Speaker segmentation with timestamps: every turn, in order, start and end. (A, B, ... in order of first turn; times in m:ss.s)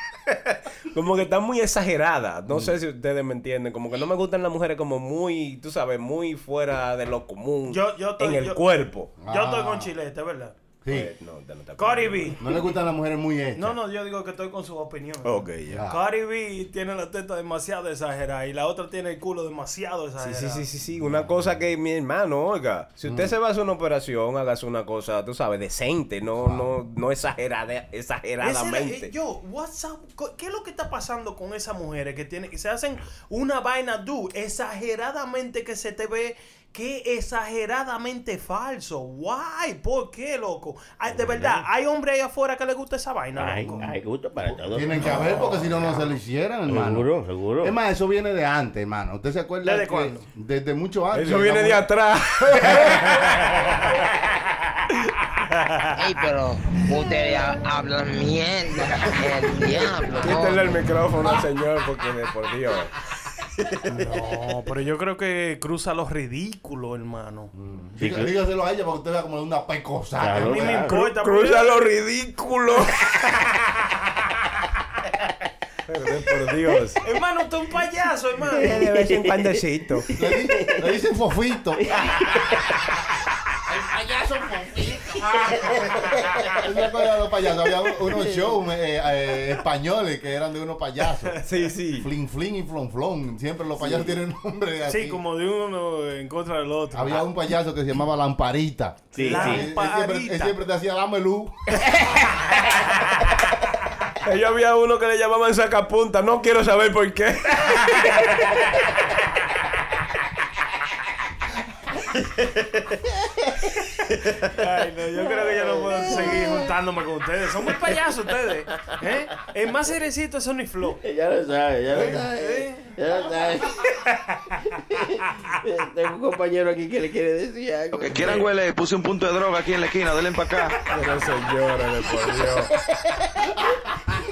0:00.3-0:09.1 A
0:02.5-0:02.8 B
0:07.7-0:08.6 C
0:09.2-0:09.9 B
0:09.3-0:10.5 C
0:10.8-0:11.1 B
0:10.9-0:12.4 A
0:11.8-0:12.4 C
0:12.4-0:13.8 B
0:13.5-0:20.6 C
0:15.2-0:15.8 A
0:15.7-0:16.0 B
0:20.2-0:29.1 A
0:21.0-0:21.6 B
0:23.0-0:23.3 B
0:26.4-0:26.7 B
0:28.4-0:43.8 C
0:41.1-0:41.6 D
0:43.3-0:46.1 D
0:43.7-0:51.8 B
0:46.7-0:47.7 D
0:49.6-0:50.2 C
0:51.1-0:54.0 A
0:52.4-0:53.6 B
0:55.6-0:55.9 C
0:56.0-1:00.7 E
0:59.0-1:01.4 B
1:00.2-1:02.9 A
1:03.9-1:04.3 B
1:04.0-1:07.5 C
1:07.5-1:10.9 B
1:08.0-1:08.3 D
1:10.2-1:10.9 D
1:10.4-1:11.9 C
1:10.9-1:13.9 A
1:15.9-1:17.0 A
1:17.0-1:18.7 C
1:18.5-1:20.8 D
1:18.6-1:20.1 A
1:20.1-1:21.9 B
1:21.8-1:22.9 D
1:23.7-1:26.6 D
1:26.6-1:31.4 B
1:28.1-1:28.5 D
1:31.4-1:32.1 A
1:31.9-1:35.2 B
1:33.8-1:34.2 D
1:34.9-1:37.2 C
1:36.9-1:41.8 B
1:39.1-1:39.7 D
1:39.2-1:40.5 C
1:44.2-1:48.5 A
1:53.2-1:53.7 D
1:54.5-2:01.0 C
1:55.2-1:56.7 D
2:01.0-2:03.9 D
2:01.9-2:02.9 C
2:04.0-2:04.5 C
2:04.7-2:08.5 D
2:07.9-2:10.8 F
2:10.9-2:12.7 A